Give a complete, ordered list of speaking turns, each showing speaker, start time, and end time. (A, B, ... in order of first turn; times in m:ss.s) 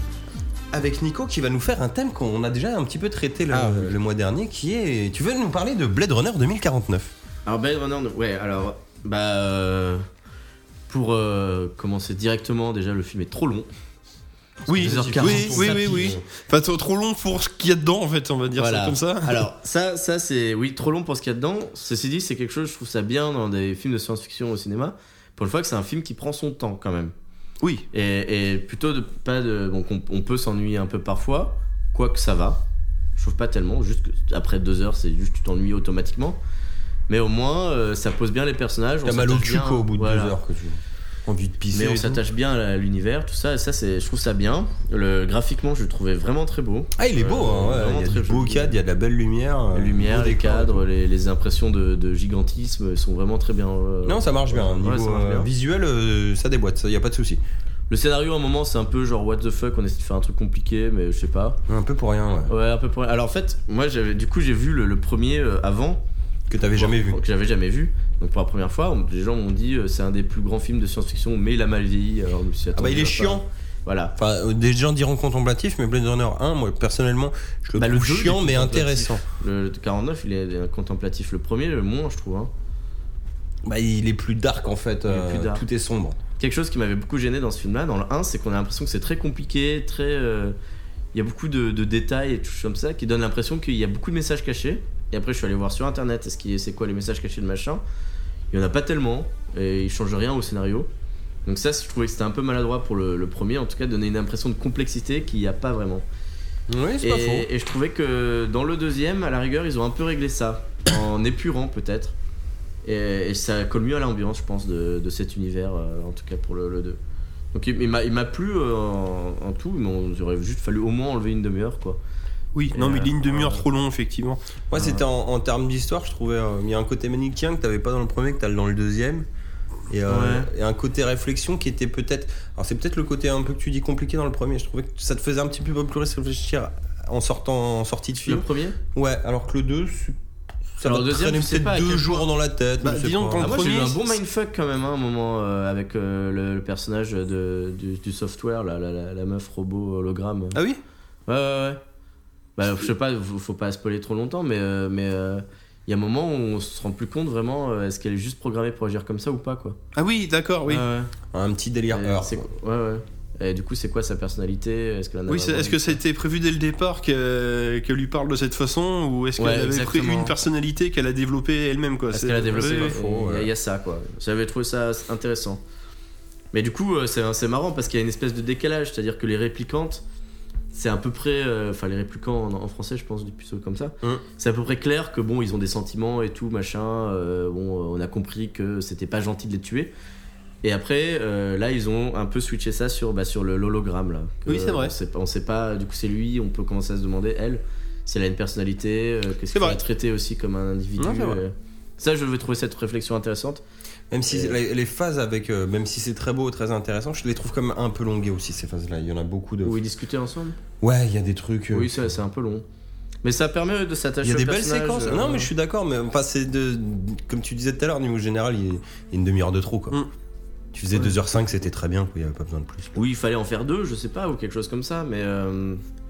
0:00.7-0:07.1 A
0:03.5-0:03.9 B
0:07.4-0:10.0 B
0:10.9-0:13.7 B
0:14.7-0:19.4 C
0:14.7-0:16.2 A
0:14.7-0:16.2 B
0:18.6-0:27.1 B
0:27.9-0:32.6 B
0:33.2-0:36.4 B
0:37.1-0:40.4 B
0:39.0-0:42.2 A
0:41.7-0:48.8 B
0:47.0-0:50.8 A
0:49.7-0:55.5 B
0:54.0-0:57.4 A
0:57.9-1:01.6 B
1:01.7-1:02.5 A
1:02.5-1:06.0 B
1:06.5-1:07.2 A
1:06.7-1:14.1 B
1:12.7-1:13.4 A
1:14.2-1:19.2 A
1:17.8-1:22.5 B
1:23.6-1:26.2 A
1:25.1-1:25.6 B
1:26.4-1:30.6 B
1:31.1-1:37.8 B
1:38.5-1:40.9 B
1:41.4-1:46.0 B
1:46.7-1:47.5 A
1:47.0-1:52.1 B
1:52.8-1:57.0 B
1:57.5-2:02.0 B
2:02.5-2:04.4 C
2:02.7-2:03.6 B
2:04.7-2:09.2 A
2:04.7-2:05.0 B
2:09.9-2:20.2 A
2:10.1-2:10.5 B
2:18.2-2:18.8 B
2:20.8-2:23.6 A
2:20.8-2:22.3 B
2:22.8-2:24.0 C
2:23.4-2:30.6 B
2:31.3-2:31.8 B
2:32.6-2:39.8 B
2:39.9-2:40.8 C
2:40.6-2:41.1 B
2:41.3-2:42.5 A
2:41.9-2:46.0 B
2:45.3-2:53.0 C
2:49.4-2:50.3 B
2:52.1-2:55.6 B
2:52.5-2:53.5 A
2:56.5-3:00.0 B
3:00.7-3:09.9 B
3:10.6-3:23.6 B
3:14.4-3:14.9 C
3:19.5-3:19.8 C
3:21.0-3:21.4 C
3:24.1-3:29.8 A
3:24.3-3:24.6 B
3:29.6-3:30.6 B
3:30.8-3:32.1 A
3:31.7-3:32.6 B
3:33.2-3:35.5 B
3:34.2-3:40.0 A
3:40.7-3:43.0 A
3:42.9-3:45.8 B